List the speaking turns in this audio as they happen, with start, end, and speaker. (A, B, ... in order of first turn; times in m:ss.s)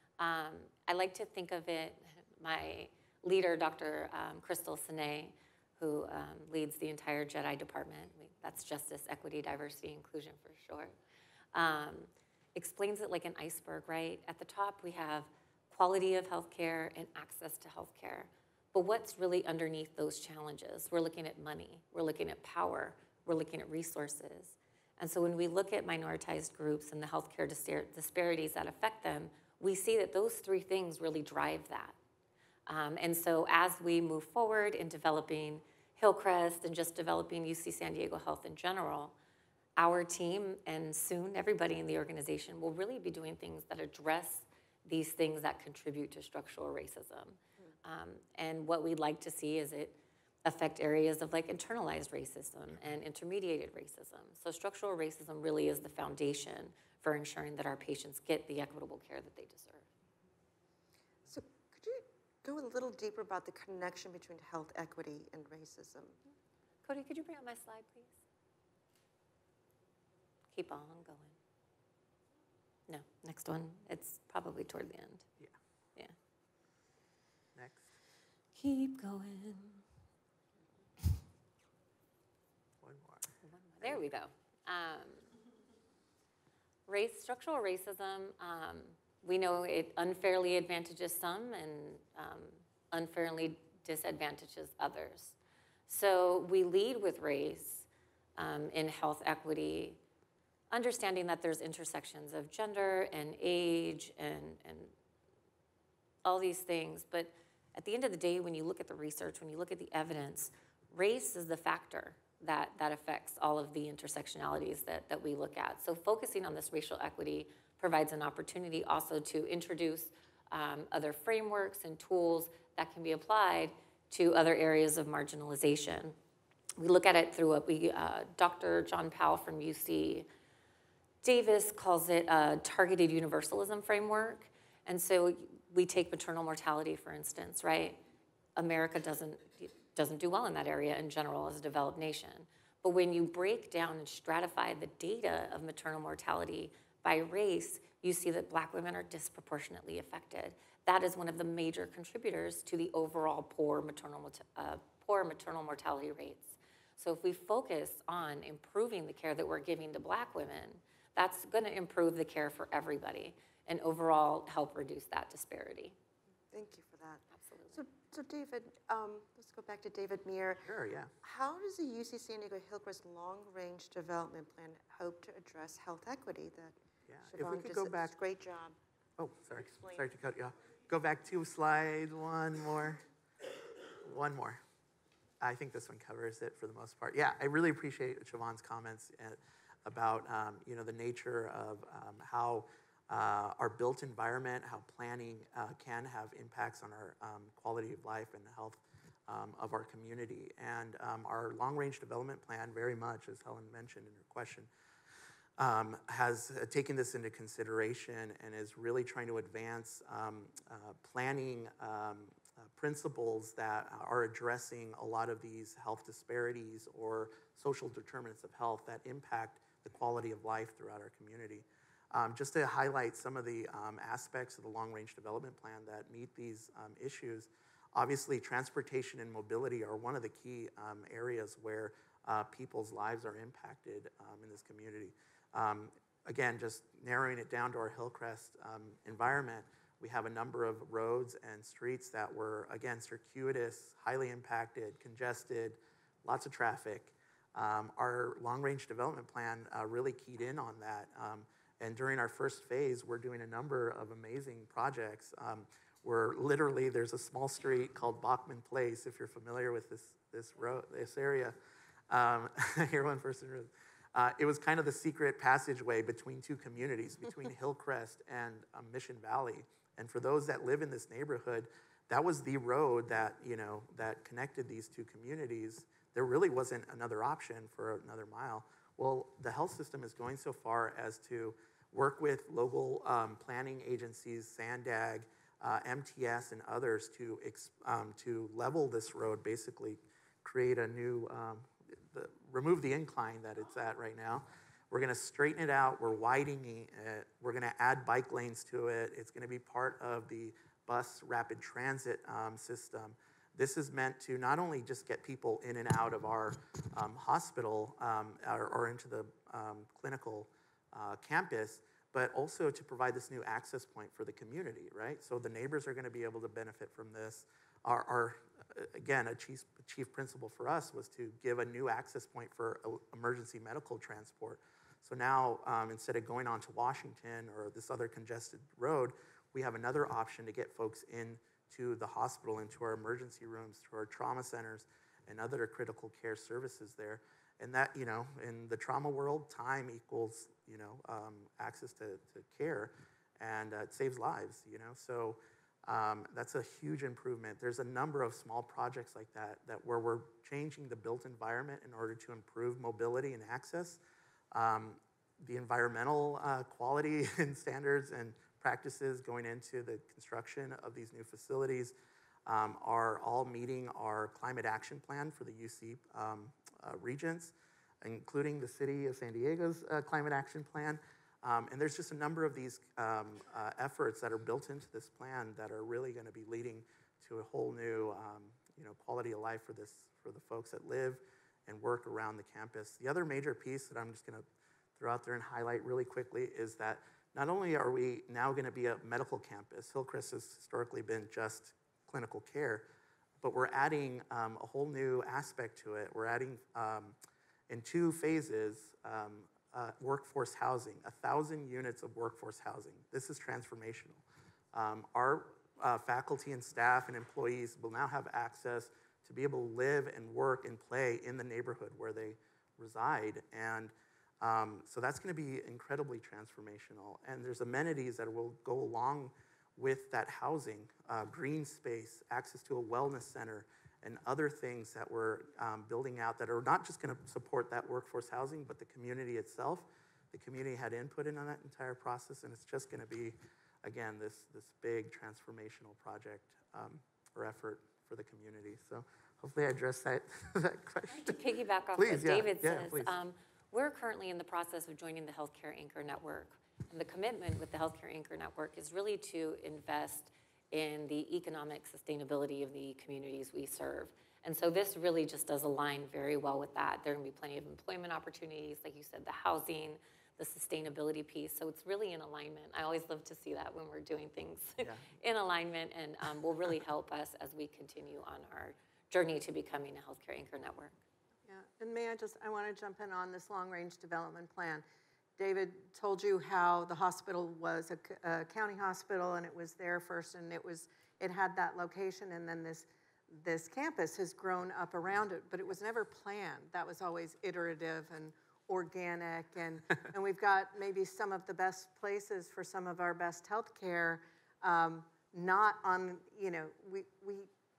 0:00.2-0:11.0 A
0:11.5-0:32.0 A
0:32.7-0:39.2 A
0:39.8-0:59.9 A
1:01.3-1:06.2 B
1:06.8-1:08.2 A
1:10.5-1:11.4 A
1:12.9-1:15.2 A
1:17.6-1:17.9 C
1:18.6-1:19.8 A
1:22.8-1:23.3 C
1:23.4-1:25.2 A
1:26.9-1:35.4 A
1:35.9-1:40.0 A
1:40.7-1:44.9 A
1:46.2-2:06.2 A
2:06.8-2:10.3 A
2:11.2-2:18.0 A
2:18.6-2:46.0 A
2:46.5-2:50.7 B
2:47.4-2:47.8 A
2:50.6-2:51.1 C
2:51.2-2:56.8 B
2:57.1-2:58.2 C
2:57.3-2:58.8 B
2:59.2-3:03.0 C
2:59.6-3:00.1 B
3:04.0-3:04.6 C
3:05.4-3:24.7 C
3:25.6-4:21.6 C
4:22.1-5:54.0 C
5:54.5-6:32.9 C
6:33.4-6:37.2 C
6:37.7-7:21.4 C
7:21.2-7:51.0 A
7:22.0-7:23.1 C
7:44.8-7:45.1 C
7:51.5-7:54.8 D
7:55.4-8:17.5 D